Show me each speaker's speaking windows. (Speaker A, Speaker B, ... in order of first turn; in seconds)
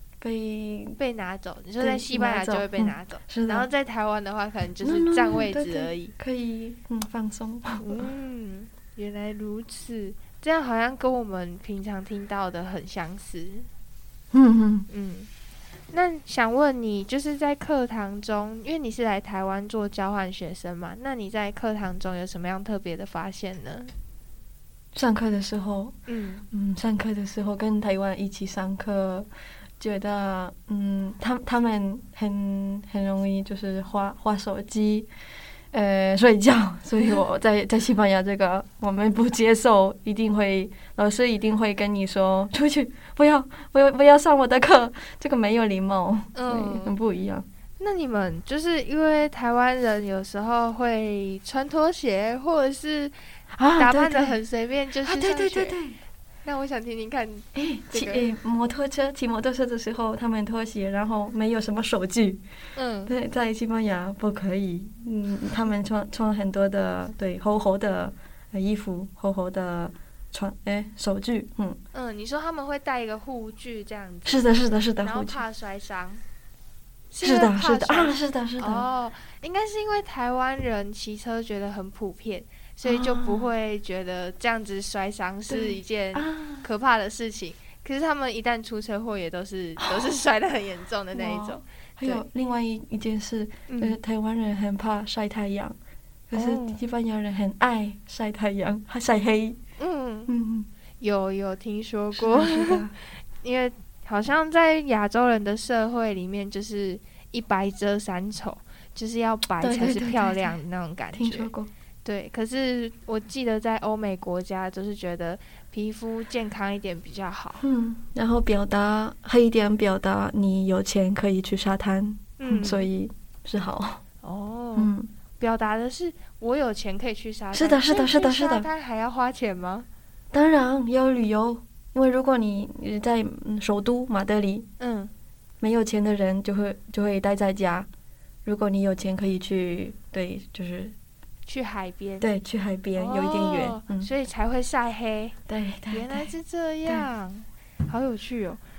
Speaker A: 0.2-1.0, 1.8-3.7, 4.8-8.0, 14.3-14.9, 24.9-25.9, 26.5-29.3, 29.8-35.1, 35.7-47.5, 53.5-54.4, 55.0-56.0, 57.5-62.4, 63.0-71.8, 74.2-75.4, 77.2-78.9, 82.8-83.5, 85.5-86.7, 89.8-90.2, 91.1-95.8, 96.3-99.6, 100.3-100.7, 102.1-103.0, 109.6-110.6, 111.1-111.7, 117.6-124.0, 124.7-125.1, 127.5-128.7, 130.3-134.7, 135.6-137.9, 138.4-140.9, 142.2-144.1, 145.5-146.3
Speaker B: 1.0-6.1, 7.8-13.7, 14.9-15.3, 15.9-23.9, 26.1-26.4, 46.3-46.9, 47.8-53.1, 53.8-55.8, 56.4-58.2, 62.7-63.1, 71.9-76.2, 77.1-92.2, 93.7-94.0, 96.3-96.8, 99.8-100.3, 101.0-102.8, 103.4-111.5, 112.0-117.6, 122.4-122.9, 124.2-129.9, 134.8-135.1, 141.4-142.3, 142.9-145.3, 145.9-148.6